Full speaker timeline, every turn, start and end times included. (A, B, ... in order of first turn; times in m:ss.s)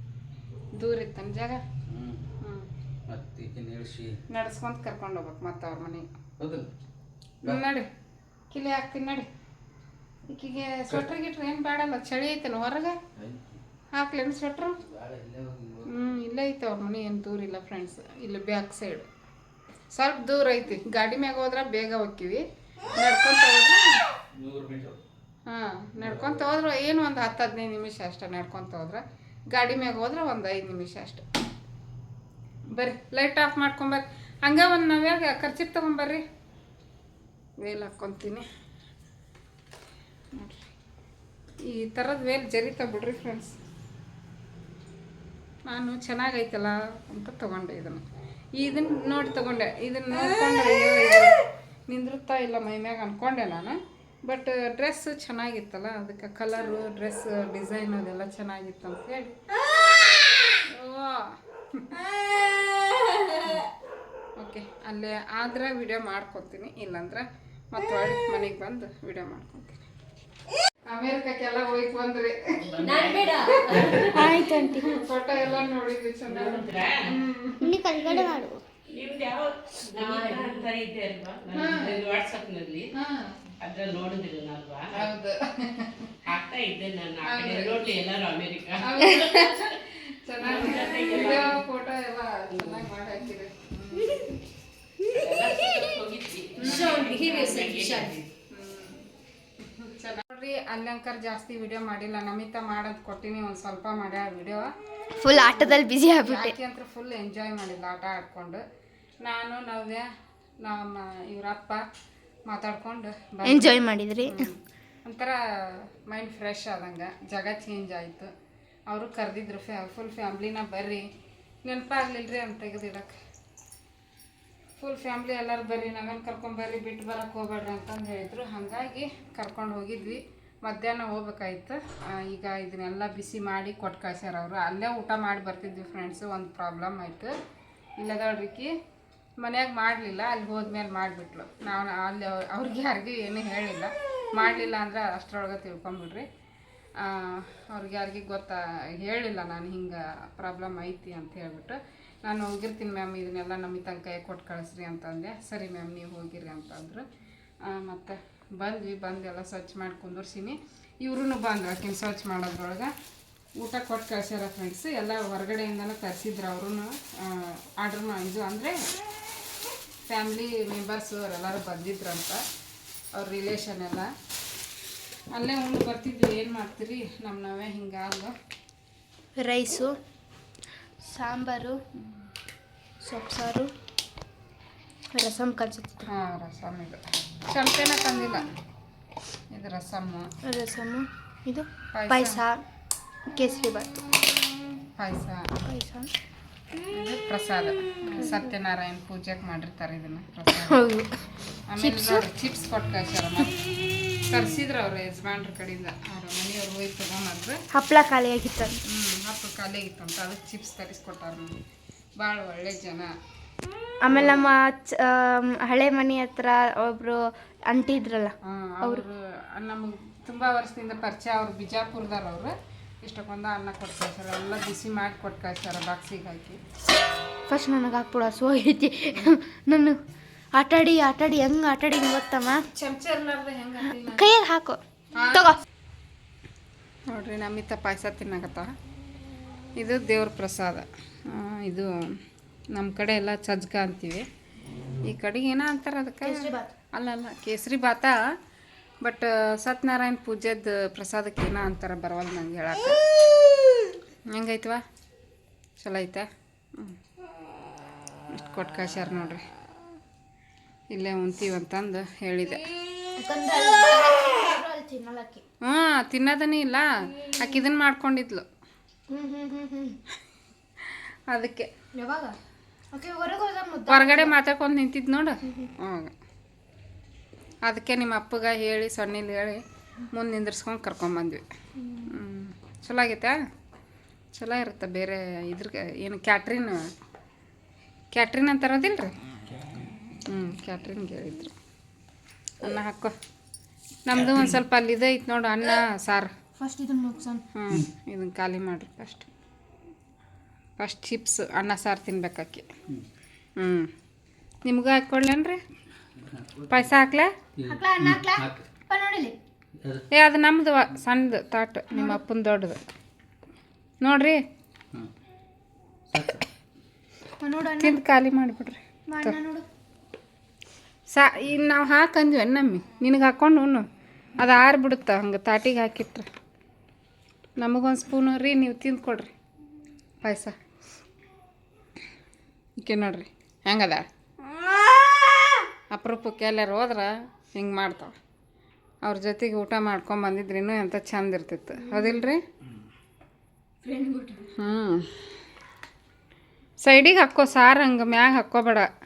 0:00.8-0:01.6 A
0:01.9-0:02.2 B
0:02.4-0:02.7 A
0:03.1-0:04.2 B
0:04.3-0:06.1 A
0:06.4-0:06.7 B
0:07.4-0:07.9 A
0:08.5-0:09.3 A
0:10.3-0:13.0 A
0:13.2-0:13.6 B
0:13.9-0:14.8 A
0:14.8-0:16.0 B
0:15.9-0:19.1 A
0:19.9-0:22.4 A
0:23.0-0:23.9 A
0:24.3-0:25.0 B
0:25.5-0:31.2 A
0:26.0-0:26.5 B
0:32.7-0:36.2 A
0:37.6-0:38.5 A
0:40.3-0:40.7 A
0:41.6-0:43.5 A
0:45.7-0:48.0 A
0:48.6-0:51.4 A
0:51.9-0:59.4 A
1:00.6-1:02.0 A
1:03.4-1:03.7 A
1:04.4-1:09.9 A
1:10.9-1:18.2 A
1:12.7-1:14.4 C
1:12.9-1:15.0 D
1:16.3-1:17.1 C
1:17.6-1:18.6 D
1:18.9-1:22.9 C
1:20.0-1:20.5 D
1:21.5-1:22.0 A
1:22.9-1:23.4 A
1:23.6-1:25.1 C
1:24.9-1:26.2 A
1:26.2-1:29.7 C
1:27.2-1:27.8 A
1:28.8-1:34.4 A
1:30.4-1:31.6 C
1:32.5-1:32.9 C
1:35.1-1:38.3 C
1:36.6-1:36.9 A
1:36.6-1:38.2 D
1:38.5-1:39.1 A
1:39.6-1:44.7 A
1:45.2-1:46.5 D
1:46.2-1:48.6 A
1:49.2-1:50.1 A
1:50.6-1:51.8 A
1:52.5-1:53.7 A
1:53.5-1:54.4 D
1:54.3-1:58.3 A
1:58.9-2:01.0 A
2:01.6-2:03.2 A
2:04.8-2:17.3 A
2:18.0-2:18.7 A
2:19.4-2:26.3 A
2:27.0-2:37.0 A
2:37.6-2:42.9 A
2:43.6-2:48.9 A
2:50.1-2:52.4 A
2:53.2-2:54.1 A
2:55.3-2:58.3 A
2:59.4-3:00.0 D
3:01.0-3:01.8 D
3:03.0-3:03.7 D
3:05.1-3:06.1 D
3:06.1-3:08.5 A
3:09.5-3:10.3 A
3:10.4-3:12.6 D
3:11.9-3:12.4 A
3:13.3-3:13.9 D
3:15.0-3:15.5 A
3:15.7-3:16.1 D
3:16.9-3:20.8 A
3:20.6-3:21.1 D
3:21.7-3:23.6 A
3:21.8-3:22.2 D
3:24.3-3:27.6 A
3:27.7-3:28.8 D
3:28.9-3:31.6 A
3:32.2-3:33.1 A
3:34.0-3:39.0 D
3:38.4-3:46.6 A
3:47.5-3:50.0 D
3:50.6-3:52.6 D
3:52.7-3:54.3 A
3:54.2-3:54.8 D
3:55.2-3:55.5 A
3:55.3-3:55.6 D
3:57.1-3:58.7 A
3:59.8-4:01.9 A
4:02.7-4:04.3 A
4:05.0-4:08.2 A
4:06.2-4:06.7 D
4:09.0-4:13.0 A
4:14.3-4:14.8 A
4:15.8-4:17.0 A
4:18.3-4:19.4 A
4:20.9-4:22.6 A
4:23.2-4:25.4 D
4:25.6-4:28.5 A
4:29.1-4:30.0 D
4:31.3-4:31.7 A
4:32.0-4:32.4 D
4:32.9-4:34.3 D
4:33.9-4:36.1 A
4:37.7-4:41.4 A
4:41.8-4:42.1 D
4:42.1-4:43.4 A
4:44.4-4:46.9 A
4:48.1-4:49.2 A
4:49.5-4:49.8 B
4:50.3-4:51.5 A
4:52.6-4:53.2 A
4:54.1-4:56.3 A
4:56.6-4:57.4 D
4:57.5-4:59.3 A
5:00.8-5:02.7 A
5:03.6-5:03.9 A
5:04.7-5:05.6 A
5:06.2-5:06.9 B
5:06.7-5:07.3 A
5:07.6-5:08.6 B
5:07.7-5:09.4 D
5:09.8-5:10.0 B
5:10.1-5:12.8 A
5:11.9-5:12.2 D
5:14.0-5:14.4 A
5:16.1-5:16.4 B
5:17.4-5:18.0 D
5:17.8-5:19.4 A
5:19.1-5:19.7 D
5:21.1-5:23.9 A
5:24.4-5:26.3 A
5:27.6-5:29.3 A
5:30.2-5:30.6 A
5:32.8-5:34.1 A
5:35.9-5:38.2 A
5:39.0-5:42.4 A
5:41.8-5:42.1 D
5:43.8-5:44.5 D
5:44.6-5:45.1 A
5:46.8-5:48.9 A